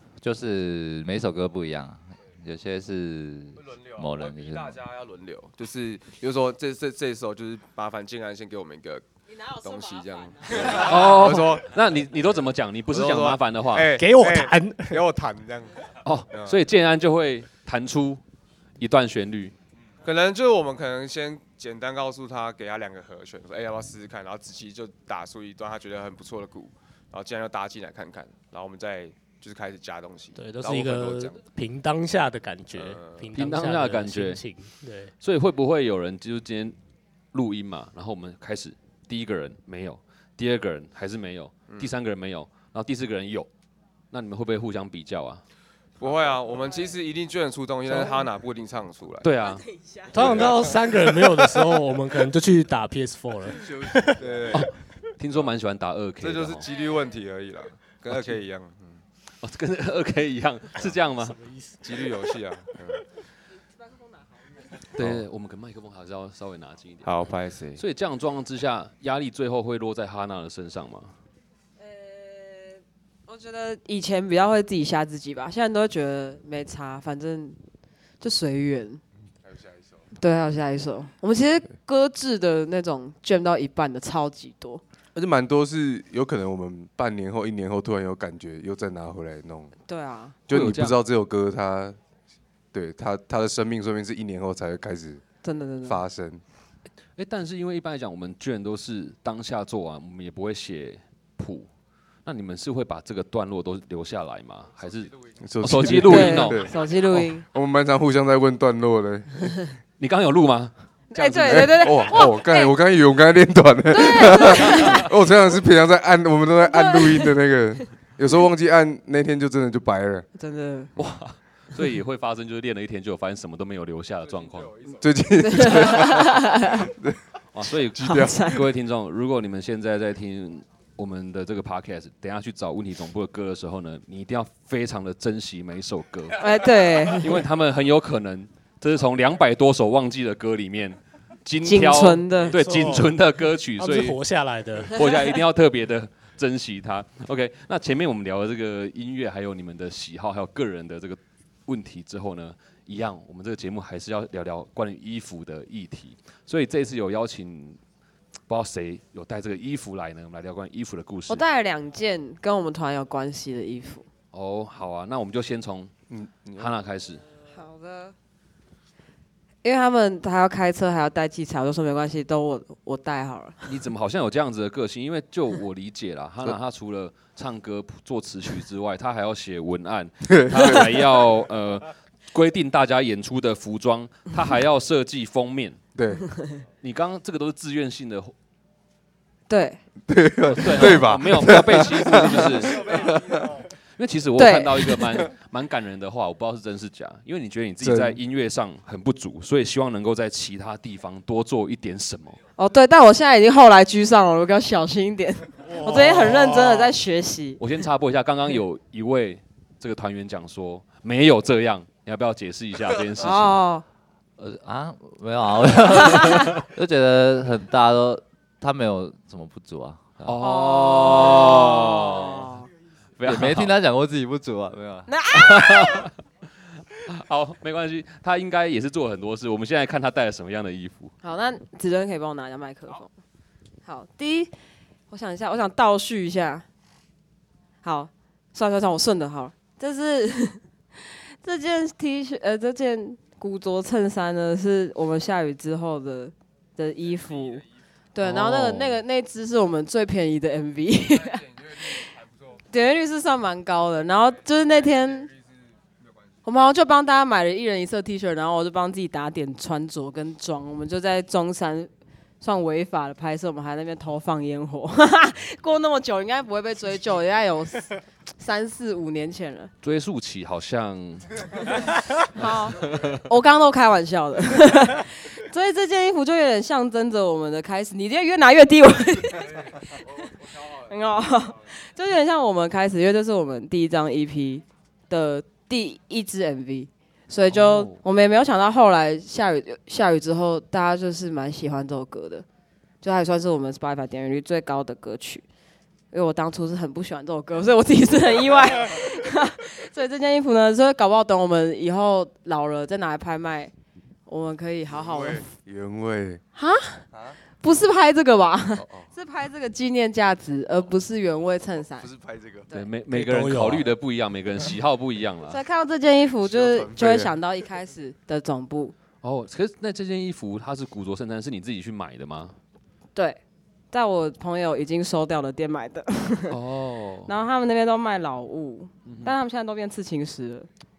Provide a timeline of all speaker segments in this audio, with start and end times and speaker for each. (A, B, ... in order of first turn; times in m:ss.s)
0:00.2-0:04.8 A
0:03.6-0:11.7 B
0:10.5-0:13.9 C
0:12.9-0:16.6 B
0:13.9-0:15.0 D
0:16.0-0:18.2 C
0:18.8-0:19.6 C
0:20.0-0:31.4 B
0:30.4-0:35.1 D
0:32.7-0:33.3 B
0:33.3-0:34.4 C
0:35.2-0:36.8 C
0:37.3-0:43.5 C
0:44.1-0:45.4 C
0:46.0-0:49.3 B
0:49.2-0:50.5 C
0:50.1-0:54.2 D
0:50.1-0:51.7 B
0:54.2-0:54.7 B
0:54.5-0:56.6 C
0:56.2-0:59.0 B
0:58.1-0:58.4 C
0:59.4-1:01.4 C
1:01.2-1:01.8 D
1:01.8-1:03.0 B
1:04.9-1:07.1 C
1:07.0-1:07.8 B
1:07.8-1:11.1 C
1:11.8-1:17.6 E
1:18.2-1:19.0 E
1:20.1-1:24.8 E
1:25.2-1:29.7 F
1:29.9-1:30.4 E
1:30.5-1:32.0 F
1:30.5-1:31.0 C
1:32.7-1:35.2 F
1:35.4-1:36.0 E
1:35.8-1:36.4 F
1:37.2-1:41.7 C
1:42.2-1:46.7 C
1:45.4-1:49.6 F
1:45.9-1:47.4 E
1:50.0-1:52.0 C
1:51.1-1:52.8 E
1:51.5-2:00.3 F
1:53.9-1:55.1 E
1:56.7-1:57.4 E
2:00.4-2:00.9 E
2:01.0-2:04.8 C
2:05.0-2:07.2 F
2:05.4-2:06.9 E
2:07.5-2:24.2 C
2:08.0-2:08.5 F
2:08.0-2:08.6 E
2:16.4-2:17.4 E
2:21.6-2:22.6 E
2:22.5-2:23.2 D
2:23.8-2:25.1 D
2:24.9-2:37.8 C
2:38.5-2:41.4 C
2:41.3-2:44.1 E
2:44.3-2:45.9 C
2:46.1-2:46.7 F
2:46.6-2:47.2 C
2:47.5-2:48.2 E
2:49.6-2:53.6 E
2:53.6-3:05.8 C
3:00.3-3:01.1 F
3:06.0-3:06.3 F
3:06.8-3:08.3 C
3:09.5-3:09.8 E
3:10.1-3:13.6 F
3:10.5-3:13.2 C
3:14.0-3:22.4 C
3:14.4-3:15.2 E
3:17.8-3:18.2 F
3:22.6-3:27.6 E
3:25.9-3:26.4 D
3:27.6-3:33.6 C
3:33.2-3:33.8 E
3:34.4-3:40.4 A
3:36.1-3:36.5 E
3:40.2-3:42.5 C
3:40.4-3:42.7 E
3:43.2-3:43.8 C
3:43.2-3:45.1 A
3:45.1-3:46.1 E
3:45.4-3:46.1 C
3:47.0-3:51.1 C
3:51.2-3:53.1 E
3:53.8-3:54.5 E
3:55.1-3:56.6 E
3:57.8-4:12.1 E
4:08.2-4:09.0 C
4:11.4-4:12.6 B
4:12.7-4:15.3 E
4:15.3-4:16.1 B
4:16.5-4:21.9 E
4:22.4-4:29.7 E
4:29.8-4:31.8 C
4:32.3-4:52.4 E
4:32.4-4:33.2 C
4:47.5-4:48.0 C
4:53.0-4:55.4 E
4:56.1-5:03.7 E
5:04.3-5:05.4 E
5:04.9-5:06.4 F
5:06.6-5:07.0 E
5:07.6-5:12.1 E
5:08.8-5:09.1 F
5:12.0-5:12.7 F
5:12.7-5:15.6 C
5:13.1-5:13.9 D
5:15.5-5:19.0 E
5:16.4-5:17.4 F
5:19.2-5:22.6 C
5:23.2-5:23.4 E
5:23.9-5:26.6 E
5:26.5-5:27.3 C
5:27.3-5:30.7 E
5:29.0-5:29.3 C